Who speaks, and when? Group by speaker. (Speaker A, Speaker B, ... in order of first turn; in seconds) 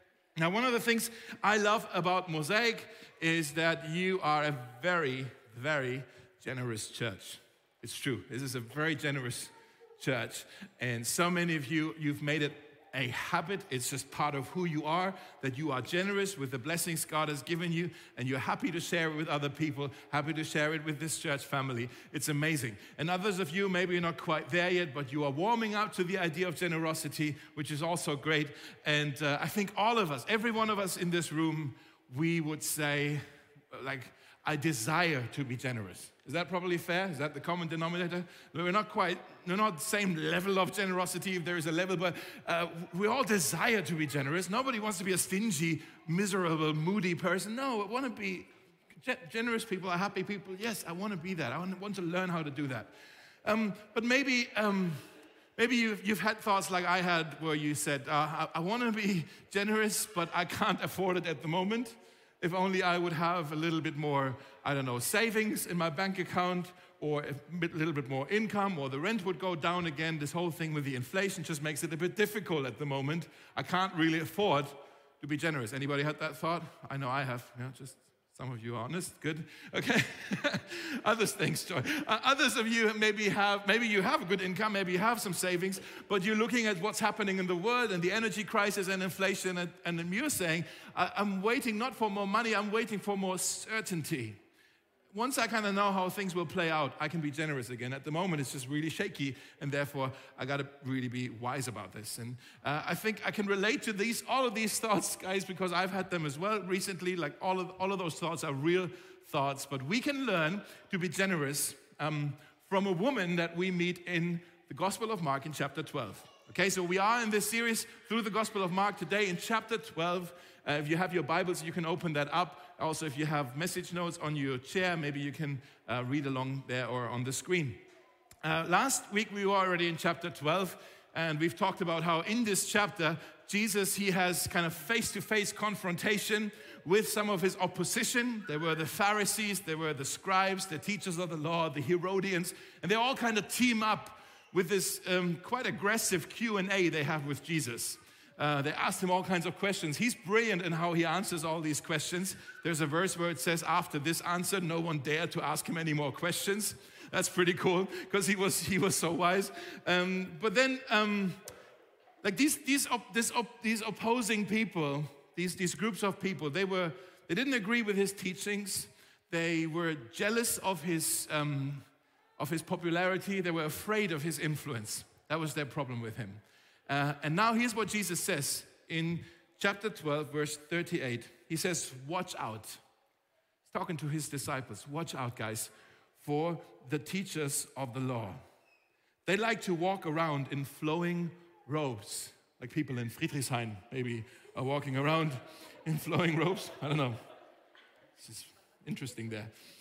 Speaker A: 0.4-52.9, 53.4-55.0, 55.6-94.4, 95.1-127.8, 128.4-161.4, 162.2-171.9, 172.4-182.8, 183.7-188.4, 189.3-197.2, 198.2-199.5